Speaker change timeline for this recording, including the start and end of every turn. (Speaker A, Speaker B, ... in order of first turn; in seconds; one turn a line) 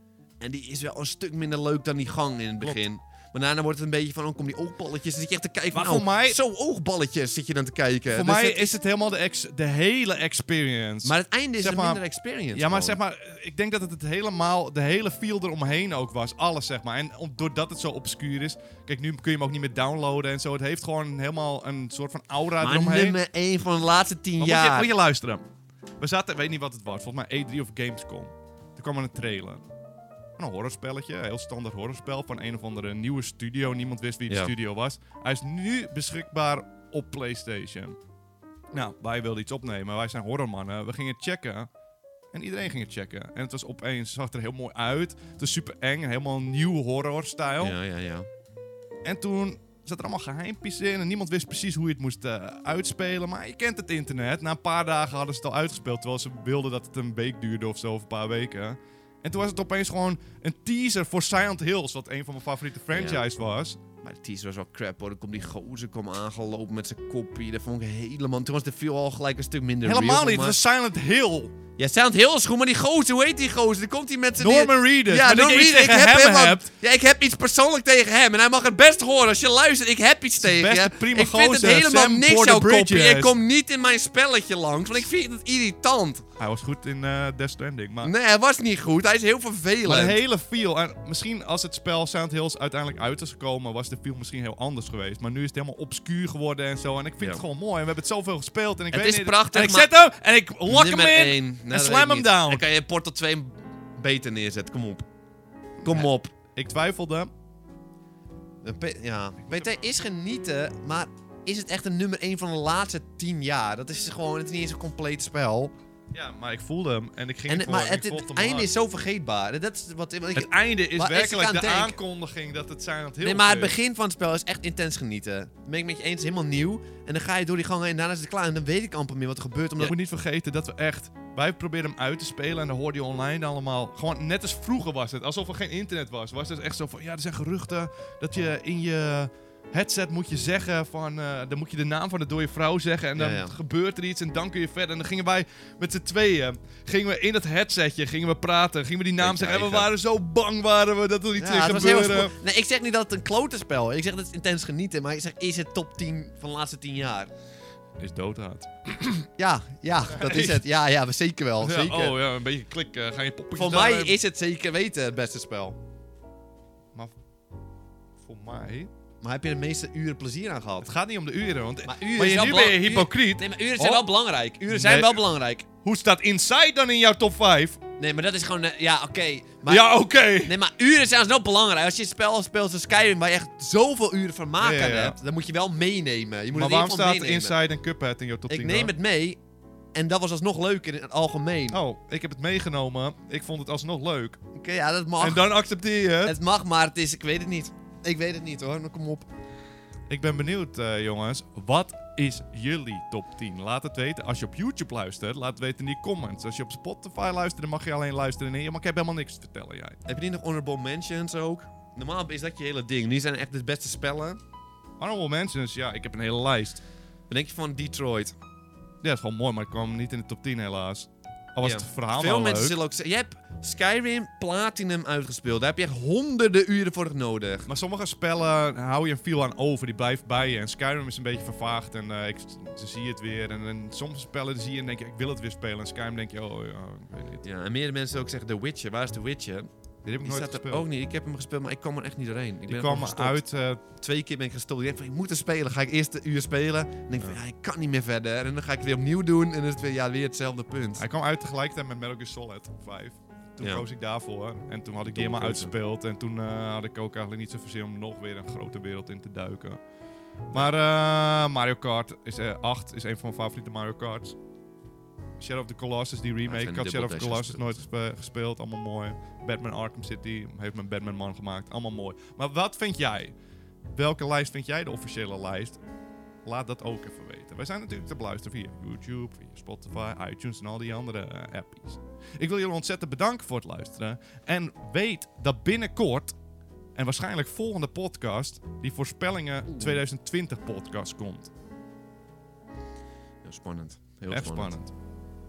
Speaker A: 0.4-8.8
Speaker B: 5.7-6.4
Speaker B: 8.1-12.0
Speaker A: 11.0-13.0
Speaker B: 12.5-23.2
Speaker A: 22.6-24.9
Speaker B: 24.4-25.4
Speaker B: 26.0-29.6
Speaker B: 30.4-38.0
Speaker B: 38.7-41.7
Speaker B: 42.3-47.8
Speaker A: 47.6-48.3
Speaker B: 49.0-63.8
Speaker A: 62.9-63.2
Speaker A: 64.0-70.6
Speaker B: 69.8-71.5
Speaker A: 71.8-86.2
Speaker B: 74.4-76.7
Speaker B: 80.4-83.3
Speaker B: 86.4-88.1
Speaker A: 88.0-90.2
Speaker B: 89.8-102.6
Speaker A: 98.9-99.9
Speaker A: 100.7-105.1
Speaker B: 105.8-107.3
Speaker A: 105.8-106.3
Speaker A: 108.6-115.7
Speaker B: 116.1-118.7
Speaker A: 117.5-122.0
Speaker B: 120.3-123.7
Speaker A: 123.2-129.9
Speaker B: 129.8-152.3
Speaker A: 143.2-143.5
Speaker A: 149.2-149.9
Speaker A: 151.4-157.3
Speaker B: 158.0-159.2
Speaker A: 159.3-162.1
Speaker B: 160.1-160.6
Speaker B: 161.6-164.1
Speaker A: 163.6-165.8
Speaker B: 168.2-168.9
Speaker A: 169.2-170.9
Speaker B: 170.8-174.1
Speaker A: 171.8-175.7
Speaker B: 174.7-175.2
Speaker B: 175.8-177.8
Speaker A: 178.0-179.9
Speaker B: 179.7-180.6
Speaker A: 180.4-187.6
Speaker B: 184.6-185.2
Speaker B: 186.5-188.9
Speaker A: 188.5-189.4
Speaker A: 189.9-191.8
Speaker B: 191.7-194.4
Speaker A: 194.6-195.5
Speaker B: 195.2-196.4
Speaker A: 196.2-199.3
Speaker B: 200.1-210.0
Speaker A: 210.1-214.4
Speaker B: 215.0-216.8
Speaker A: 217.3-218.3
Speaker B: 219.0-222.8
Speaker A: 221.6-227.7
Speaker B: 227.7-237.4
Speaker A: 237.4-239.7
Speaker B: 240.1-240.9
Speaker A: 240.2-243.4
Speaker B: 242.7-243.8
Speaker A: 243.9-251.0
Speaker B: 251.0-259.8
Speaker A: 255.1-255.7
Speaker B: 260.5-264.4
Speaker B: 265.4-273.3
Speaker A: 266.4-267.8
Speaker B: 273.9-275.8
Speaker B: 276.4-286.4
Speaker B: 286.9-291.5
Speaker A: 293.4-294.7
Speaker B: 294.3-294.9